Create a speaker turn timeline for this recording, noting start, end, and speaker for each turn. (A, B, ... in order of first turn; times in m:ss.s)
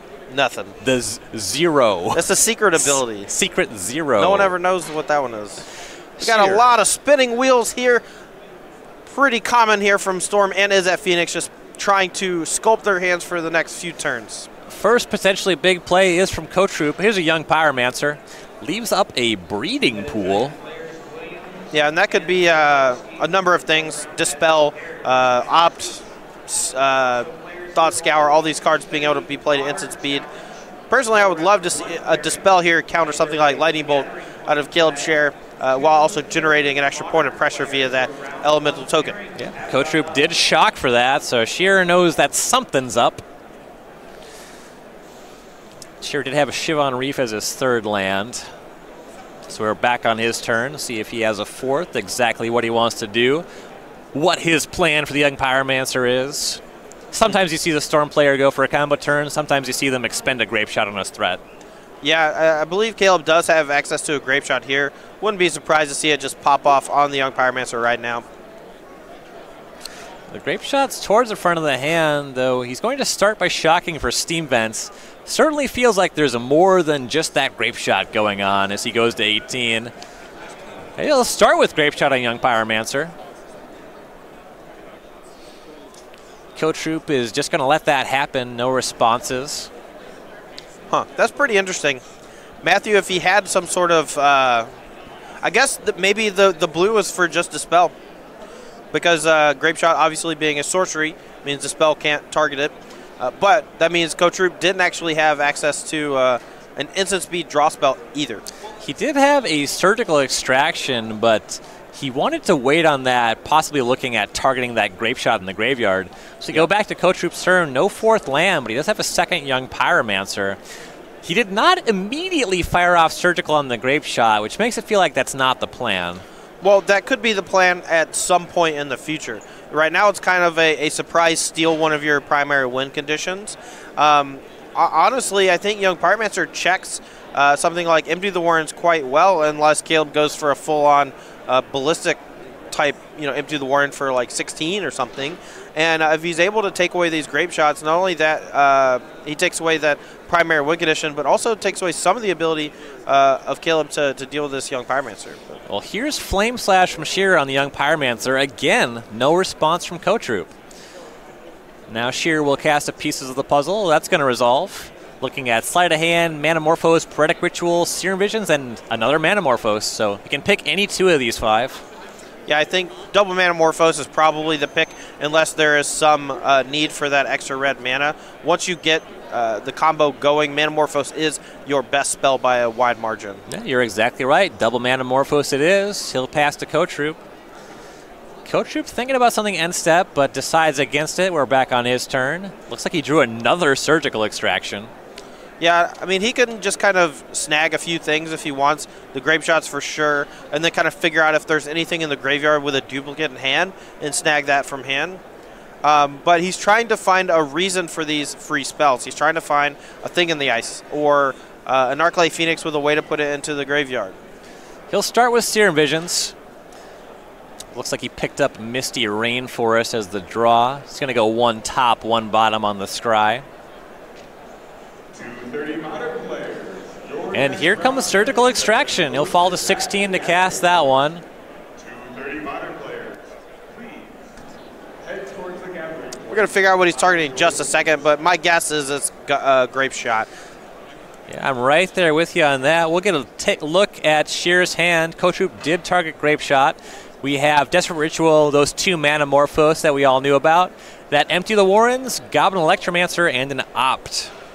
0:00.3-0:00.8 A
0:00.8-0:02.2 B
0:02.1-0:03.3 A
0:02.8-0:04.5 B
0:04.2-0:05.7 A
0:06.2-0:06.6 B
0:06.2-0:08.0 A
0:09.1-0:14.5 A
0:14.7-0:20.6 B
0:21.7-0:30.3 A
0:30.9-0:39.2 A
0:39.4-0:43.2 B
0:46.0-0:48.4 B
0:49.5-0:53.4 B
0:54.1-1:01.4 B
1:02.0-1:08.2 A
1:10.3-1:19.9 B
1:21.0-1:23.1 B
1:26.6-1:29.7 B
1:30.9-1:32.0 A
1:32.6-1:34.7 A
1:35.4-1:37.9 A
1:38.9-1:48.4 A
1:48.8-2:00.6 B
2:01.2-2:06.2 B
2:06.6-2:22.2 A
2:22.7-2:35.6 A
2:35.7-2:40.5 B
2:41.9-2:51.8 B
2:52.5-3:03.4 A
3:03.5-3:07.2 B
3:08.4-3:14.9 B
3:15.6-3:25.2 A
3:25.8-3:34.2 A
3:34.9-3:36.4 B
3:37.7-3:43.5 B
3:45.1-3:50.4 C
3:47.3-3:51.2 B
3:51.8-3:54.1 C
3:55.0-3:56.6 C
3:56.3-4:00.3 A
3:57.1-3:57.7 C
4:01.3-4:14.3 B